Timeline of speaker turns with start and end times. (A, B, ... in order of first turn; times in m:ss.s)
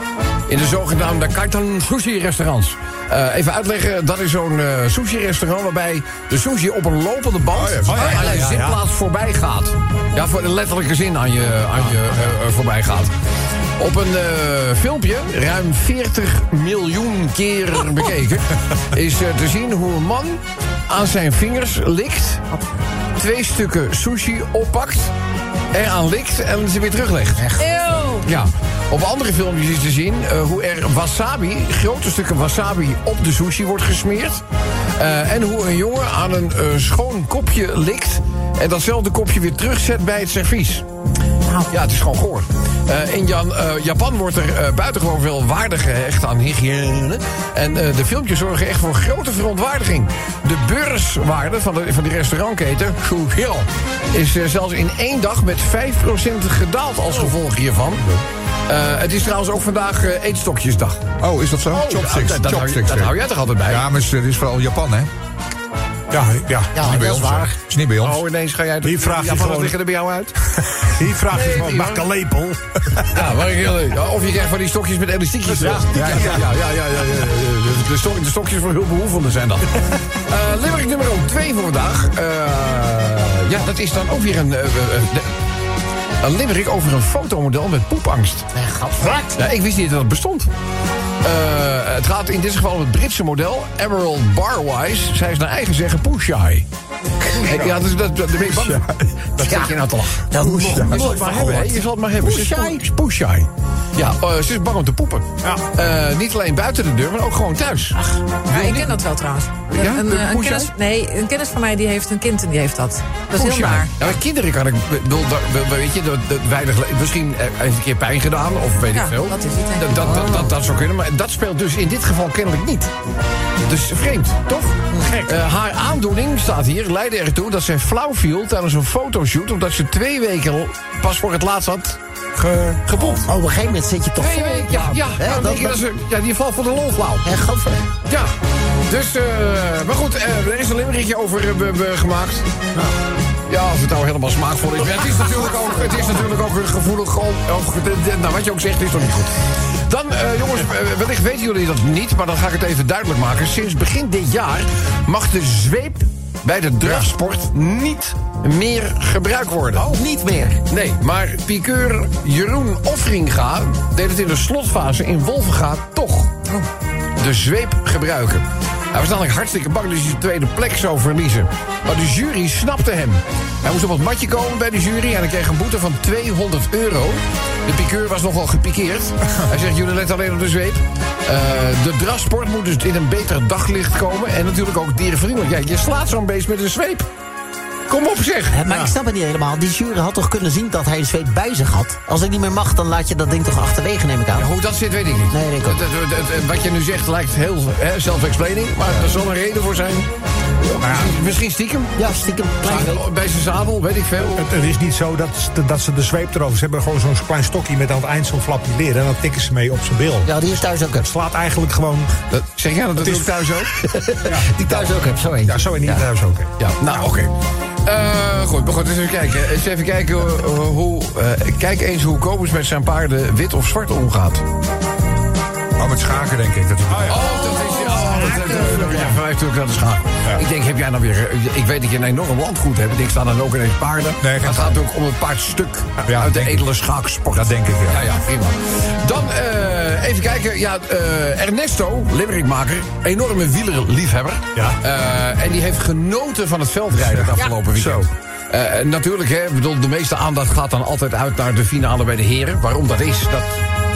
0:00.5-0:13.1 A
0:07.6-0:08.0 B
0:07.8-0:08.8 C
0:13.8-0:22.4 A
0:22.5-0:22.8 D
0:23.2-0:25.1 A
0:25.7-0:27.4 A
0:27.4-0:27.7 E
0:27.6-0:28.2 D
0:28.2-0:34.4 A
0:35.0-0:40.8 A
0:41.5-0:41.7 D
0:41.7-0:58.0 A
0:58.7-1:01.0 A
1:01.2-1:05.1 B
1:01.7-1:03.8 A
1:06.1-1:06.9 C
1:06.7-1:07.6 E
1:06.8-1:07.5 A
1:07.7-1:08.2 B
1:08.0-1:10.3 A
1:08.8-1:09.8 C
1:10.6-1:13.1 C
1:11.3-1:12.0 A
1:13.1-1:25.3 A
1:15.5-1:16.5 C
1:26.2-1:28.5 A
1:28.5-1:29.4 E
1:29.3-1:30.5 A
1:31.2-1:36.6 A
1:37.3-1:37.6 E
1:37.4-1:48.9 A
1:37.5-1:37.8 C
1:39.4-1:39.7 E
1:40.3-1:42.8 E
1:40.7-1:41.7 C
1:48.4-1:54.1 D
1:49.7-1:50.7 A
1:53.3-2:02.9 A
1:58.9-2:00.6 D
2:03.6-2:12.0 A
2:04.9-2:05.2 E
2:05.0-2:05.4 C
2:12.4-2:13.0 C
2:12.8-2:13.2 A
2:13.1-2:15.8 E
2:14.2-2:17.3 A
2:17.2-2:17.8 E
2:18.0-2:18.3 A
2:18.9-2:22.5 A
2:23.5-2:29.4 A
2:29.9-2:40.0 A
2:39.7-2:40.6 E
2:40.7-2:46.3 A
2:47.2-3:07.1 A
3:07.9-3:08.6 A
3:08.5-3:14.5 E
3:08.7-3:08.9 C
3:14.3-3:20.1 A
3:15.3-3:15.8 E
3:20.6-3:22.1 A
3:20.8-3:21.2 C
3:22.0-3:23.0 E
3:22.6-3:24.5 A
3:24.2-3:30.3 C
3:30.2-3:31.1 E
3:31.0-3:32.2 C
3:32.3-3:33.7 A
3:33.0-3:33.5 C
3:33.8-3:36.1 E
3:34.2-3:36.5 C
3:36.6-3:37.3 A
3:37.8-3:44.4 A
3:45.8-3:47.2 B
3:46.9-3:47.2 C
3:47.1-4:13.6 A
3:47.6-3:48.9 D
3:48.5-3:49.1 C
3:54.2-3:54.8 B
3:56.0-3:56.7 B
3:57.3-3:58.0 B
4:07.1-4:08.1 B